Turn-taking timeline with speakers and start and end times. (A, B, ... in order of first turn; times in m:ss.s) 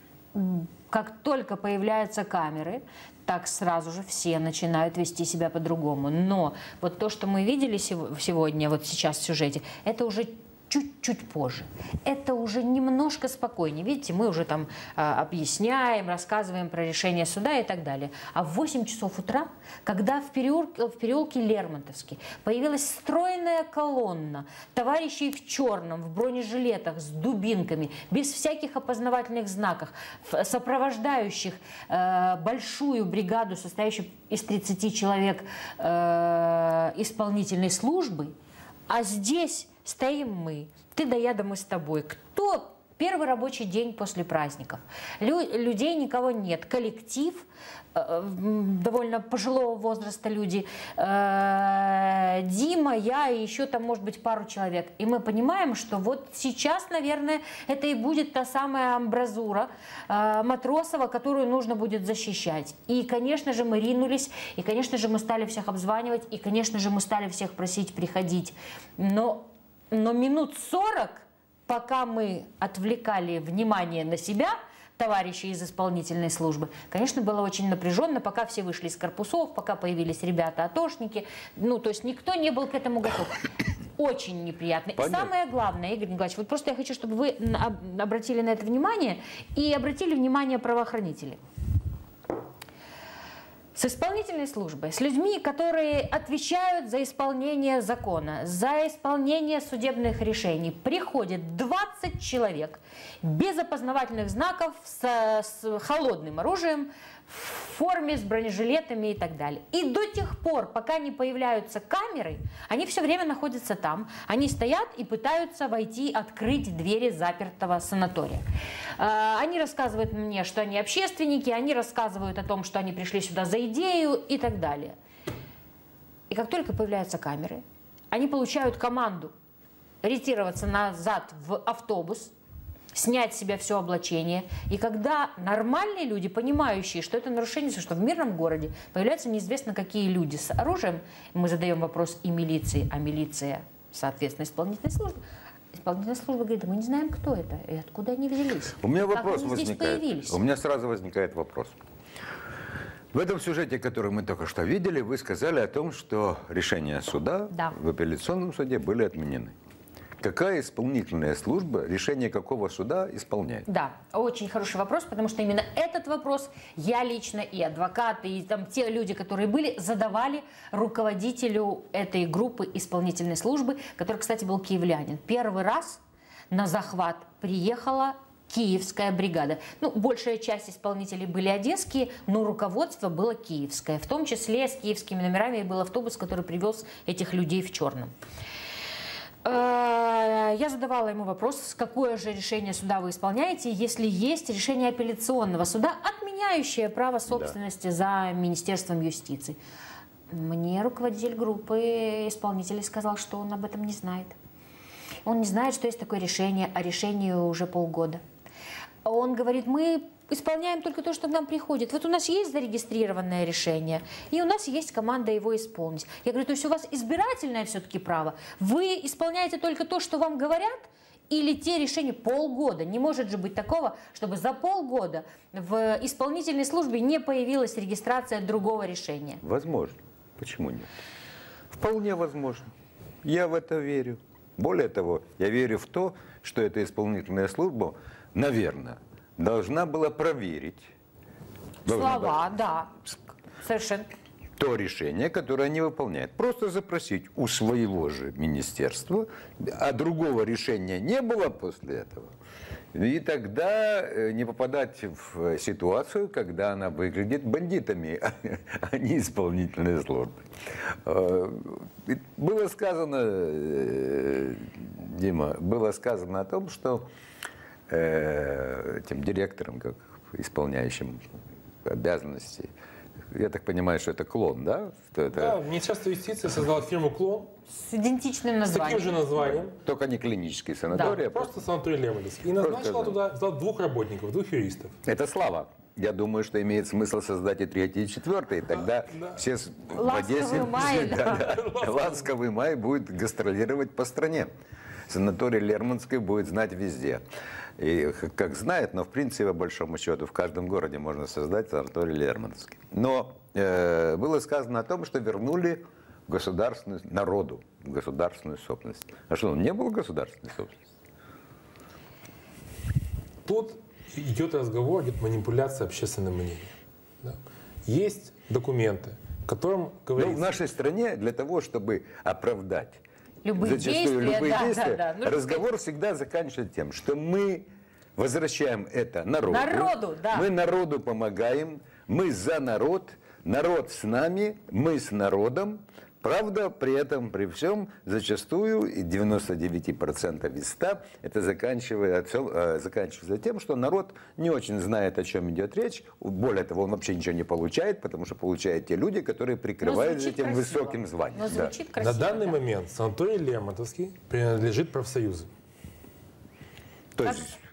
0:00.3-0:38.3 A
0:38.9-1:31.4 A
1:25.0-1:25.3 B
1:33.8-1:58.4 A
1:59.0-2:05.0 A
2:06.3-2:09.3 A
2:10.0-2:12.3 A
2:12.9-2:25.2 A
2:25.7-2:30.4 A
2:28.8-2:31.8 B
2:33.1-2:39.5 B
2:40.2-2:43.7 B
2:43.7-3:08.1 A
3:09.4-3:19.6 A
3:20.3-3:24.4 A
3:25.2-3:28.2 A
3:29.0-3:49.4 A
3:49.4-3:51.0 B
3:51.7-3:52.7 B
3:53.2-4:00.9 B
4:01.9-4:02.5 B
4:01.9-4:02.9 A
4:03.6-4:04.1 A
4:04.6-4:12.3 B
4:12.9-4:27.1 B
4:27.9-4:31.2 B
4:31.8-4:32.7 B
4:33.3-4:35.6 B
4:35.3-4:37.5 C
4:37.7-4:39.2 A
4:38.7-4:39.8 C
4:39.4-4:41.6 B
4:41.0-4:45.0 C
4:42.6-4:43.2 B
4:45.0-4:54.5 B
4:49.1-4:49.4 C
4:49.9-4:51.5 A
4:51.0-4:52.2 C
4:55.1-4:57.2 B
4:57.8-5:10.8 B
5:13.4-5:20.5 C
5:20.2-5:23.0 B
5:23.4-5:25.7 A
5:23.6-5:51.7 B
5:29.5-5:30.5 A
5:49.8-5:52.6 A
5:52.0-5:55.5 C
5:57.2-5:57.6 B